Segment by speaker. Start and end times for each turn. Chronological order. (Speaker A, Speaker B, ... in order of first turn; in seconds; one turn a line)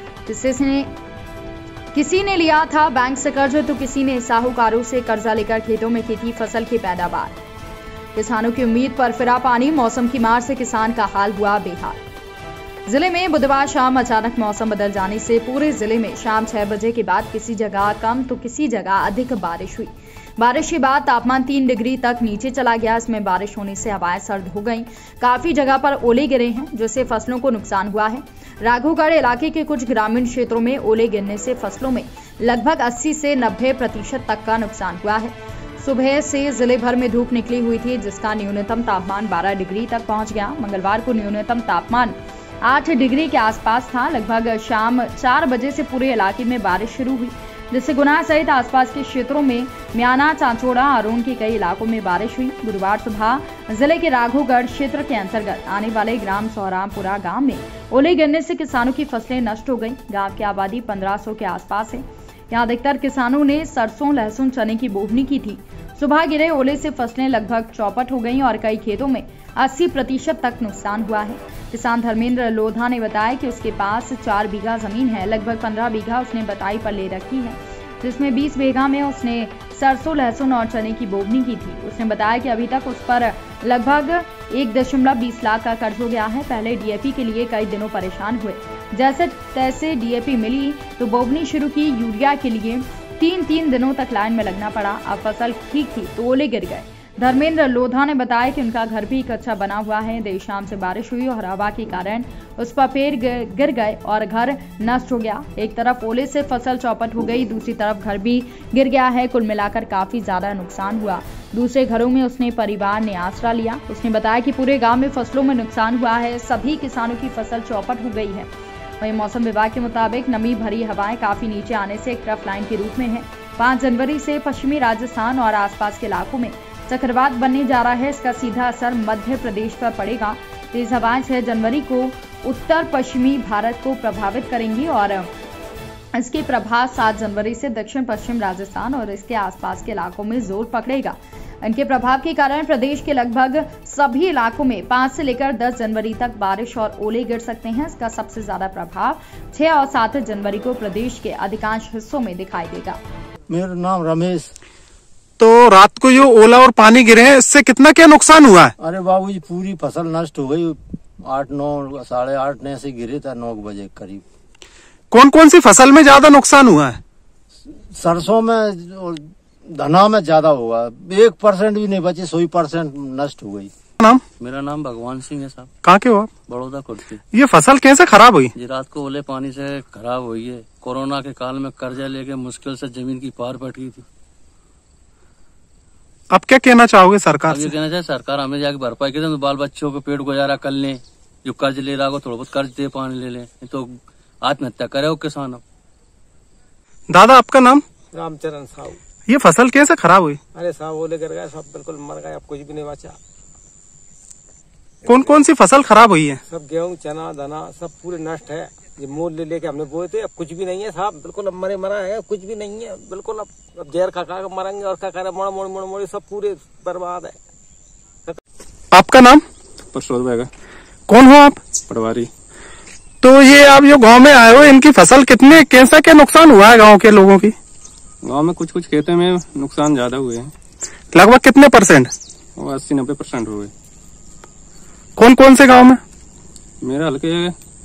Speaker A: 0.3-0.9
Speaker A: 1.9-7.3
Speaker A: 8.1-12.0
Speaker A: 12.8-135.3
Speaker A: 136.1-153.0
Speaker B: 153.5-154.5
Speaker C: 155.4-158.7
Speaker B: 158.8-164.2
Speaker C: 165.1-167.0
Speaker B: 167.8-173.7
Speaker D: 174.4-175.7
Speaker C: 175.8-176.3
Speaker D: 176.5-177.2
Speaker C: 177.3-178.5
Speaker D: 178.6-184.0
Speaker C: 186.3-187.7
Speaker D: 187.5-195.6
Speaker C: 197.1-197.8
Speaker E: 198.1-199.0
Speaker C: 199.3-200.4
Speaker E: 200.5-203.2
Speaker C: 205.1-206.4
Speaker E: 205.1-205.3
Speaker E: 206.5-217.4
Speaker C: 218.9-219.4
Speaker F: 219.9-220.5
Speaker C: 221.1-221.7
Speaker F: 221.9-222.3
Speaker C: 223.2-227.5
Speaker F: 228.2-230.5
Speaker C: 231.1-232.1
Speaker F: 232.6-233.7
Speaker C: 235.2-236.0
Speaker F: 236.8-237.5